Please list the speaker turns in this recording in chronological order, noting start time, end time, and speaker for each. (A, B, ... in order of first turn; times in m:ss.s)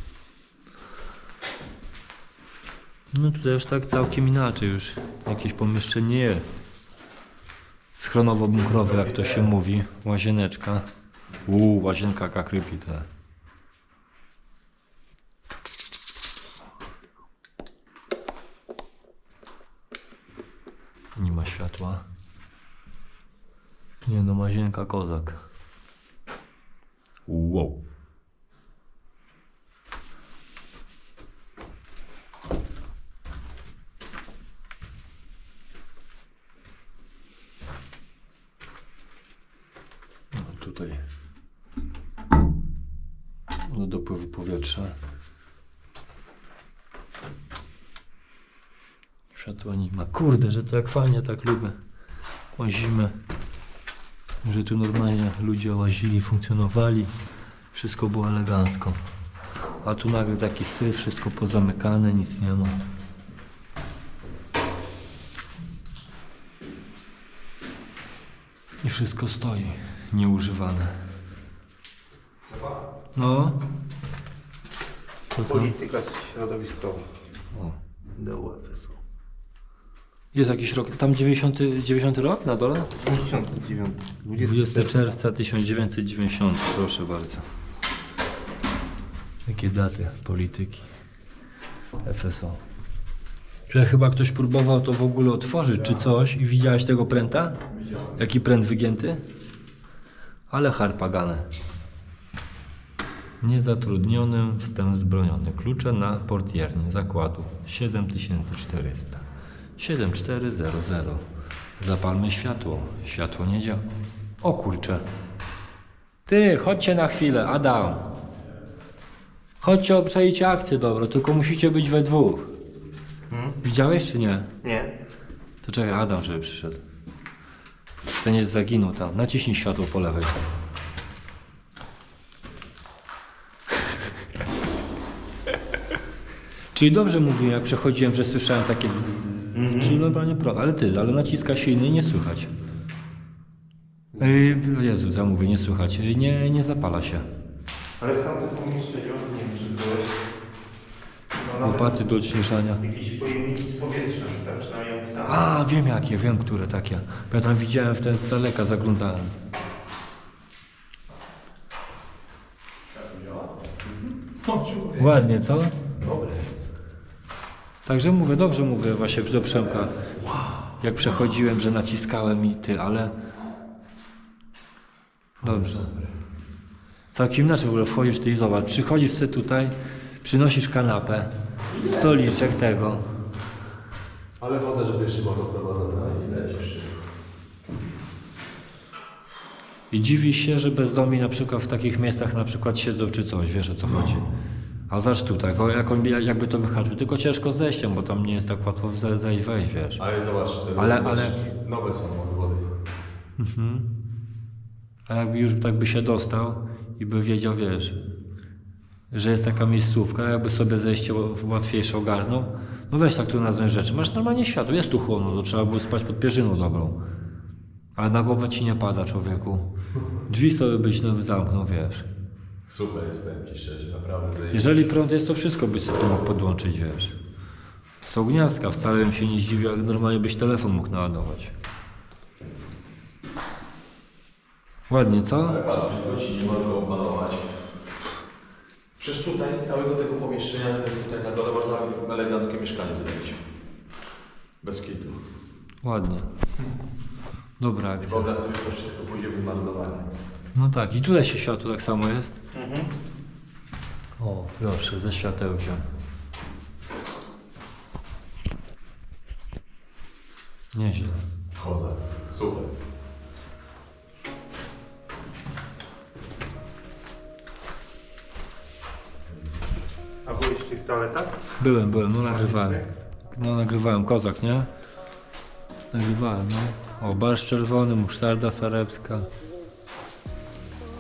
0:03.1-0:06.6 A
0:07.9-0:10.9 A
0:08.5-0:09.5 B
0:11.5-0:13.1 A
0:21.2-0:22.0 A
0:24.0-0:25.5 A
0:27.3-0:27.8 A
0:40.3-0:41.0 A
0:43.6-0:45.0 A
0:49.3-0:51.8 A
0:52.6-0:53.1 A
0:54.4-0:57.1 A
0:57.7-0:59.0 A
0:59.8-1:02.8 A
1:08.8-1:11.0 A
1:12.5-1:12.8 C
1:13.2-1:13.6 A
1:15.4-1:15.7 A
1:15.4-1:17.1 C
1:18.1-1:19.0 C
1:20.3-1:22.9 A
1:23.0-1:25.1 C
1:24.4-1:27.5 A
1:29.5-1:30.9 A
1:32.0-1:32.6 A
1:33.7-1:37.6 A
1:37.7-1:38.2 B
1:38.2-1:39.2 A
1:40.5-1:41.5 A
1:43.4-1:49.2 A
1:49.8-1:51.2 A
1:51.8-1:53.8 A
1:54.4-1:55.0 A
1:56.3-1:58.0 A
1:59.6-2:02.5 A
2:03.3-2:03.6 C
2:03.6-2:04.5 A
2:04.6-2:04.9 C
2:05.6-2:06.8 A
2:08.2-2:10.5 A
2:16.7-2:22.5 A
2:19.6-2:20.0 C
2:24.2-2:27.3 A
2:28.0-2:30.2 C
2:31.3-2:32.2 C
2:31.6-2:32.8 A
2:32.8-2:35.5 C
2:35.3-2:39.4 A
2:42.9-2:45.2 B
2:45.0-2:45.8 A
2:46.0-2:46.5 B
2:47.9-2:50.0 A
2:50.1-2:50.6 B
2:50.8-2:53.1 A
2:55.4-2:56.1 B
2:55.4-2:55.9 A
2:57.1-3:03.1 A
3:01.7-3:02.4 B
3:04.4-3:06.9 B
3:09.9-3:14.3 A
3:14.9-3:20.0 A
3:20.0-3:22.7 B
3:20.8-3:21.4 A
3:23.4-3:23.9 A
3:25.1-3:28.0 A
3:29.1-3:37.0 A
3:38.0-3:39.7 A
3:40.3-3:42.1 A
3:42.7-3:44.9 B
3:44.5-3:47.2 A
3:48.0-3:51.6 A
3:54.9-3:55.6 A
3:55.4-3:57.6 B
3:59.0-4:03.4 B
4:04.6-4:05.2 B
4:05.8-4:06.3 A
4:07.6-4:08.3 A
4:08.0-4:10.1 B
4:10.6-4:12.4 A
4:12.5-4:12.9 C
4:14.2-4:15.9 A
4:20.7-4:21.2 A
4:21.6-4:22.7 B
4:30.2-4:31.4 C
4:31.6-4:34.7 A
4:32.2-4:32.9 C
4:35.9-4:39.3 A